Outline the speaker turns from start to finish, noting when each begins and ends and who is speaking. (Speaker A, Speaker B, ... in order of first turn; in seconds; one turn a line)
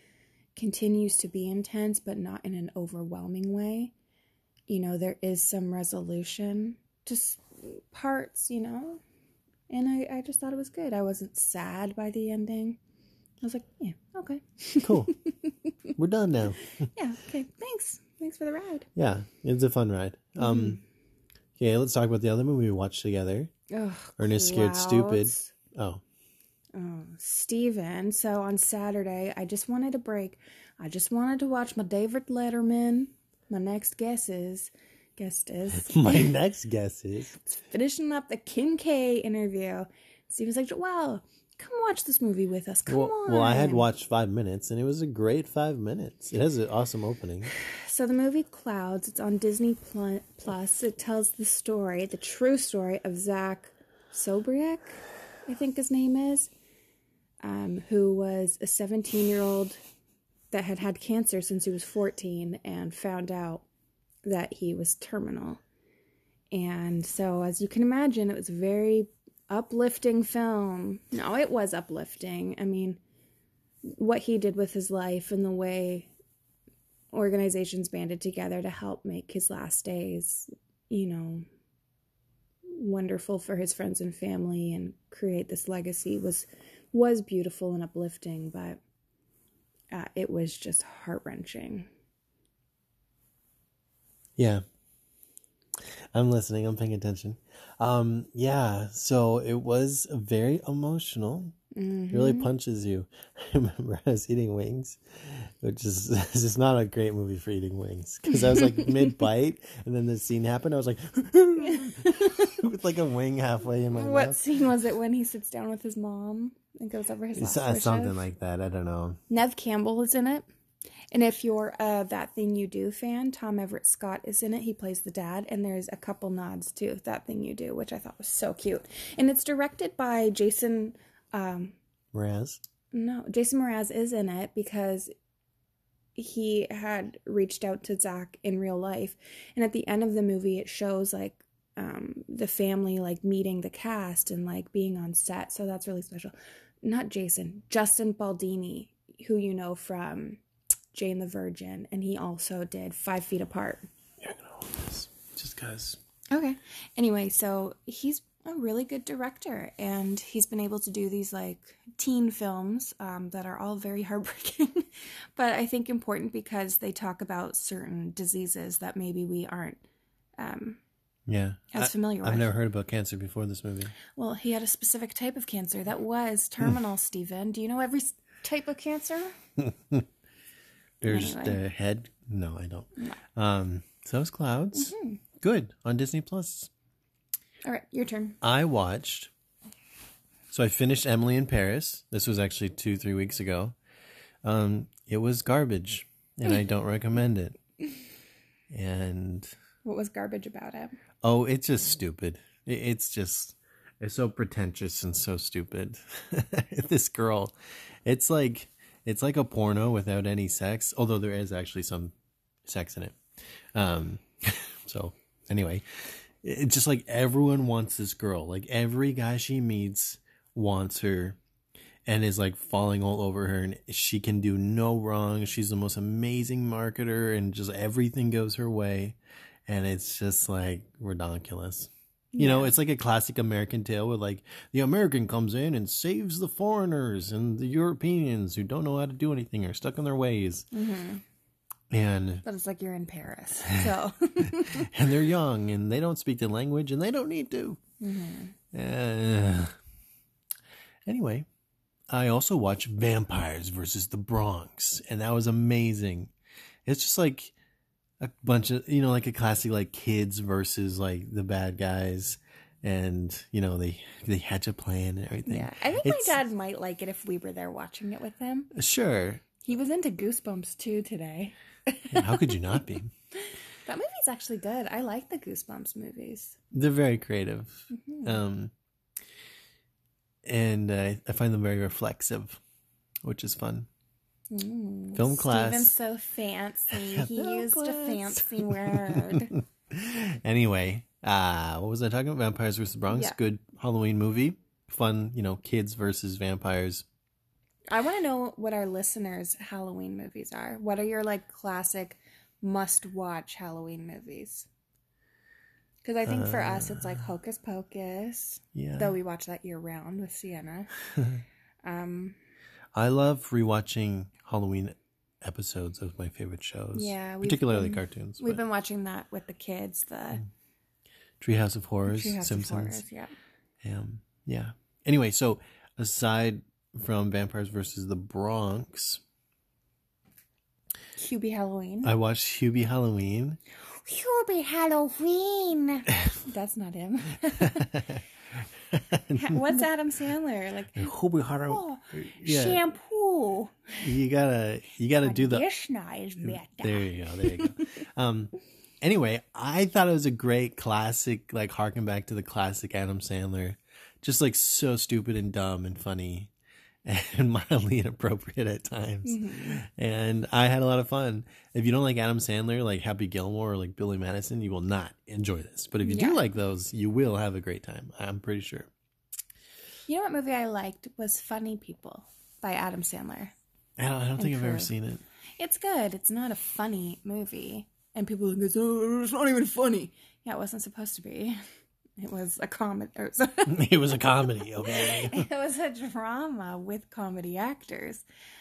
Speaker A: 0.6-3.9
Speaker A: 4.7-9.0
Speaker A: 9.7-12.8
Speaker A: 13.4-15.5
Speaker B: 14.8-15.1
Speaker B: 15.9-16.7
Speaker A: 16.9-18.9
Speaker B: 18.9-20.8
Speaker A: 20.4-20.8
Speaker B: 21.6-23.5
Speaker A: 23.7-25.5
Speaker B: 24.2-26.0
Speaker A: 26.7-36.4
Speaker B: 35.8-37.4
Speaker A: 37.5-43.9
Speaker B: 42.9-47.5
Speaker A: 47.6-56.5
Speaker A: 57.4-59.8
Speaker A: 60.5-63.6
Speaker A: 64.2-65.6
Speaker A: 66.5-73.0
Speaker A: 73.8-76.1
Speaker A: 77.1-81.4
Speaker A: 82.7-88.8
Speaker A: 89.9-91.9
Speaker B: 94.4-94.6
Speaker B: 95.8-101.5
Speaker A: 101.7-102.5
Speaker B: 102.1-114.4
Speaker A: 111.7-112.6
Speaker A: 113.9-118.2
Speaker B: 117.3-119.2
Speaker A: 119.3-120.5
Speaker A: 121.1-131.8
Speaker B: 132.1-132.6
Speaker A: 132.9-135.1
Speaker A: 136.2-150.4
Speaker A: 150.9-153.9
Speaker B: 154.2-156.0
Speaker A: 156.3-169.8
Speaker A: 170.4-170.8
Speaker B: 171.3-174.0
Speaker A: 171.7-172.5
Speaker A: 174.1-179.3
Speaker B: 179.6-180.1
Speaker B: 181.0-186.7
Speaker A: 181.1-181.6
Speaker A: 184.7-185.2
Speaker A: 187.6-188.4
Speaker B: 188.4-189.3
Speaker B: 190.5-193.7
Speaker B: 194.4-197.6
Speaker B: 198.7-199.5
Speaker A: 199.8-201.0
Speaker B: 201.2-207.5
Speaker B: 208.0-212.1
Speaker B: 212.6-213.2
Speaker B: 213.7-221.4
Speaker B: 222.1-240.7
Speaker A: 232.3-232.8
Speaker A: 240.7-241.2
Speaker B: 241.9-242.4
Speaker A: 242.4-244.9
Speaker B: 244.5-247.8
Speaker A: 248.0-248.5
Speaker B: 248.7-249.7
Speaker B: 251.1-251.4
Speaker B: 252.1-256.3
Speaker B: 256.9-257.5
Speaker B: 258.2-266.4
Speaker A: 265.4-268.7
Speaker B: 268.7-269.4
Speaker A: 269.6-272.8
Speaker B: 272.1-273.1
Speaker A: 273.9-276.6
Speaker B: 276.7-278.7
Speaker A: 277.9-278.4
Speaker B: 280.4-282.6
Speaker B: 283.2-283.9
Speaker A: 284.5-289.5
Speaker B: 285.1-285.9
Speaker B: 286.9-297.0
Speaker A: 293.1-293.4
Speaker A: 297.9-304.7
Speaker A: 306.0-310.9
Speaker B: 306.2-307.2
Speaker B: 308.7-309.1
Speaker A: 311.8-312.4
Speaker B: 312.9-318.6
Speaker A: 316.9-320.4
Speaker B: 321.4-323.0
Speaker A: 322.0-323.3
Speaker B: 323.8-329.2
Speaker A: 331.1-332.1
Speaker B: 332.0-333.6
Speaker A: 333.9-338.0
Speaker B: 337.6-338.2
Speaker B: 338.9-339.8
Speaker A: 339.3-341.1
Speaker B: 340.9-342.8
Speaker A: 341.7-344.0
Speaker B: 344.0-345.6
Speaker A: 345.2-347.8
Speaker B: 346.4-356.5
Speaker B: 357.0-368.9
Speaker A: 359.2-359.8
Speaker A: 366.0-366.4
Speaker A: 370.1-373.5
Speaker B: 374.0-375.2
Speaker A: 374.4-374.9
Speaker A: 375.6-381.6
Speaker A: 382.2-388.2
Speaker B: 383.7-385.4